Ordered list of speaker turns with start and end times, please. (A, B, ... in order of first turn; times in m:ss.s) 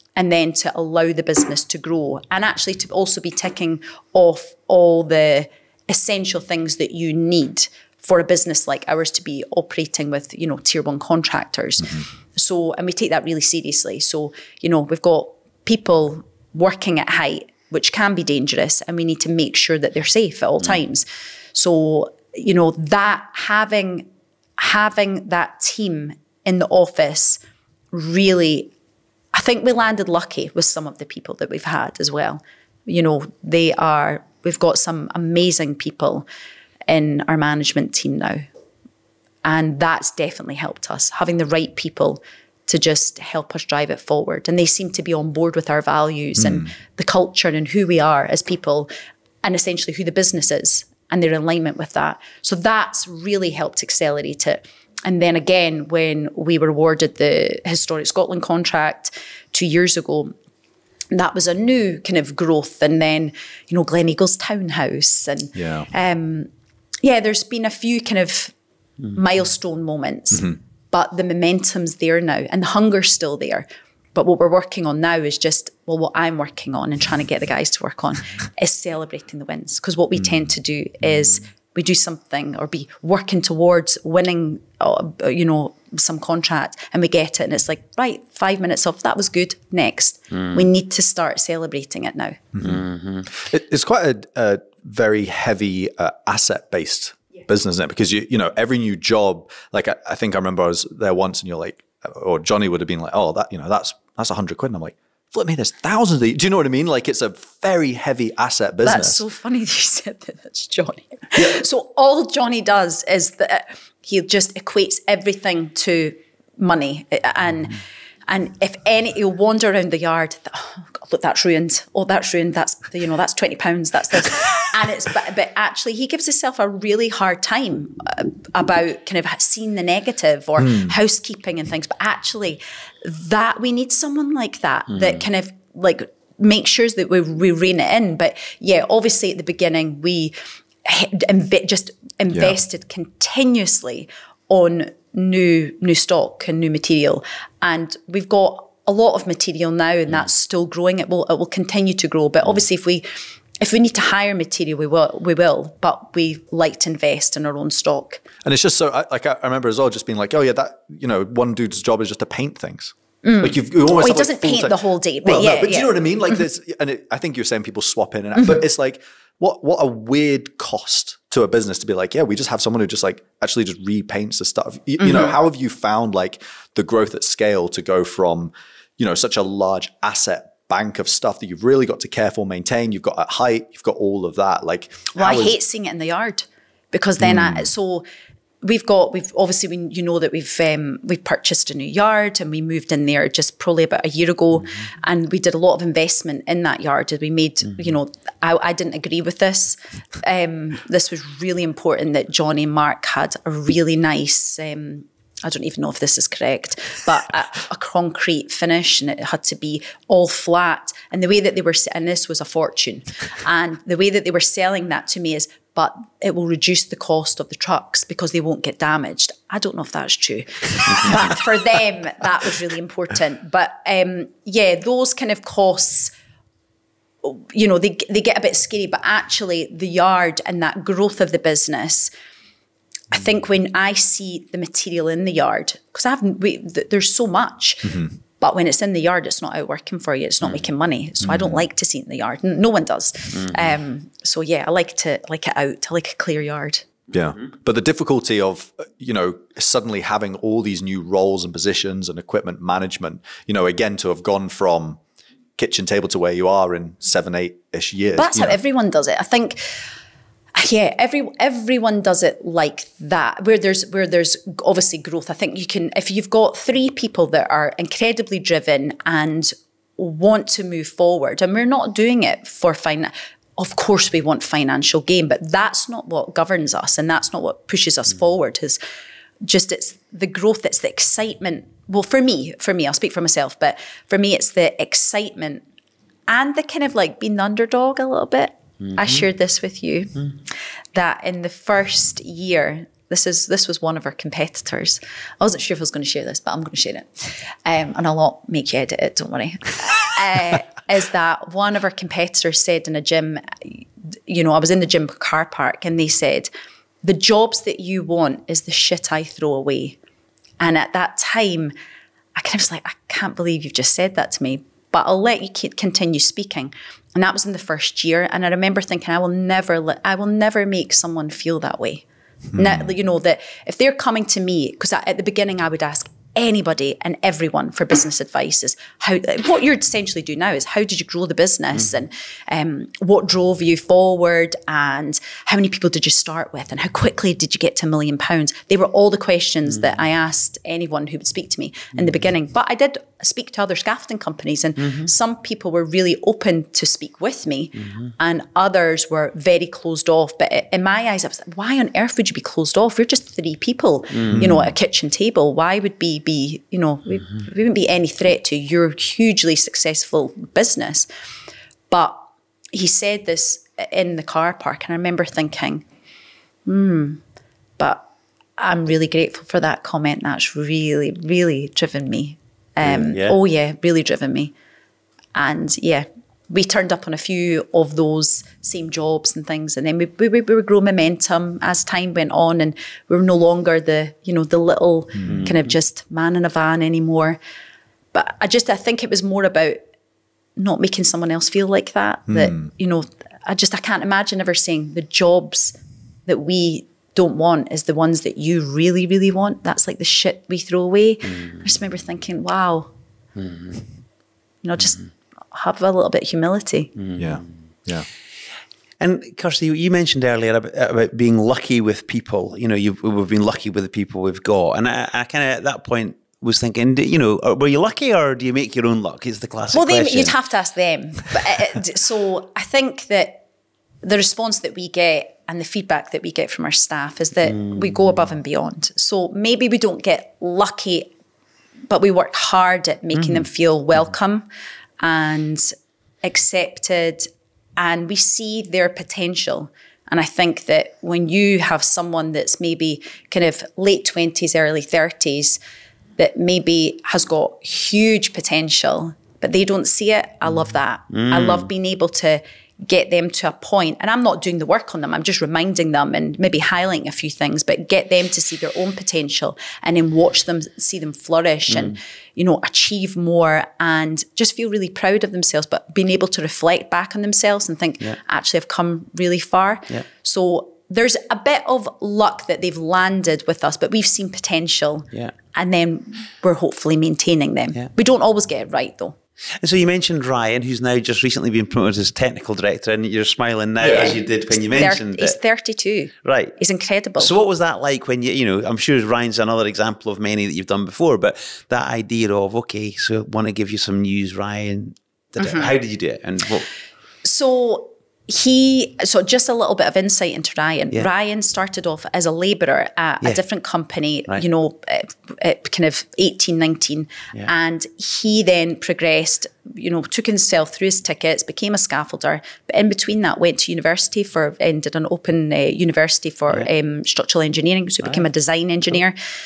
0:00.2-0:27.4 A
0:27.9-0:28.7 A
0:29.3-0:36.3 A
0:36.9-0:38.4 A
0:39.4-0:48.9 A
0:49.4-1:00.3 A
1:01.1-1:06.5 A
1:05.6-1:05.9 B
1:07.0-1:08.5 A
1:09.1-1:32.4 A
1:32.6-1:33.3 C
1:33.4-1:49.2 B
1:48.8-2:33.1 A
2:33.6-2:38.2 A
2:38.4-3:05.6 B
2:43.2-2:46.4 A
2:55.0-2:55.3 A
3:05.2-3:08.0 A
3:07.2-3:07.6 B
3:08.6-3:46.1 A
3:47.2-3:52.1 A
3:53.1-4:06.9 A
4:07.1-4:15.0 B
4:15.6-4:18.6 B
4:18.2-4:19.8 A
4:20.6-4:38.8 A
4:39.4-4:45.6 A
4:46.3-4:50.3 A
4:50.9-5:06.5 A
5:07.0-5:10.0 A
5:10.6-5:11.7 A
5:12.4-6:01.1 A
6:01.9-6:02.2 A
6:02.7-6:05.8 A
6:06.7-6:07.2 A
6:07.8-6:08.0 A
6:08.6-6:14.5 A
6:12.9-6:13.4 C
6:15.4-6:27.4 A
6:25.3-6:25.6 C
6:28.1-6:29.8 A
6:30.6-6:42.9 A
6:32.3-6:32.6 B
6:43.4-6:43.9 C
6:44.6-6:47.0 A
6:47.0-6:47.4 C
6:47.2-6:48.1 B
6:49.0-7:00.4 C
6:59.7-7:03.4 A
7:04.0-7:11.1 A
7:07.5-7:07.8 C
7:11.9-7:14.5 A
7:13.2-7:13.4 C
7:15.0-7:25.6 A
7:26.2-7:59.2 A
7:31.1-7:31.7 C
7:59.6-8:05.4 C
8:03.9-8:07.3 A
8:06.2-8:06.6 C
8:07.2-8:16.7 C
8:15.4-8:15.7 A
8:17.2-8:39.2 A